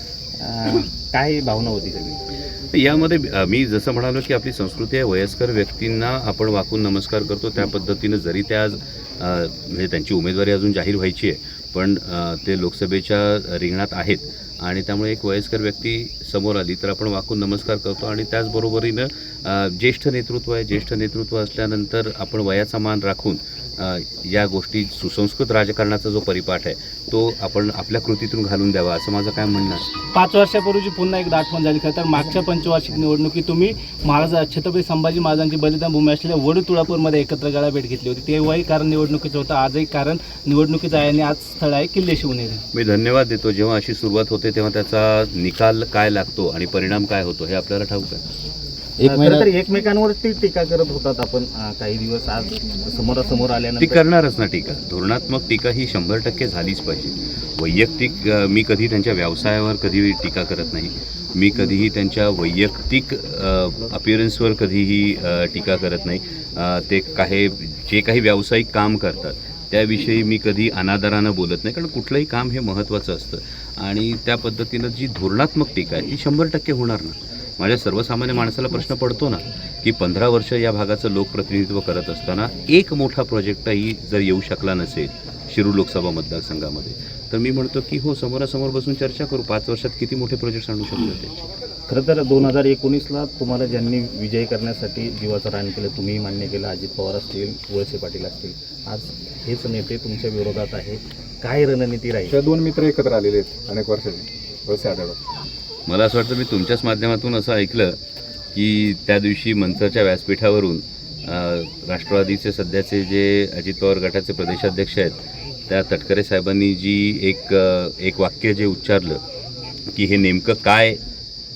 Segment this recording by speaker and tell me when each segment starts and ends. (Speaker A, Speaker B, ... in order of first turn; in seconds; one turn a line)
Speaker A: 0.4-2.2
Speaker B: 2.7-29.9
Speaker C: 30.1-42.6
Speaker B: 42.7-48.2
Speaker A: 49.0-54.0
Speaker D: 49.1-49.4
Speaker B: 53.8-91.3
Speaker A: 91.9-102.3
Speaker D: 102.3-105.2
Speaker B: 105.9-108.0
Speaker B: 108.5-115.2
Speaker B: 115.7-119.2
Speaker B: 119.9-121.0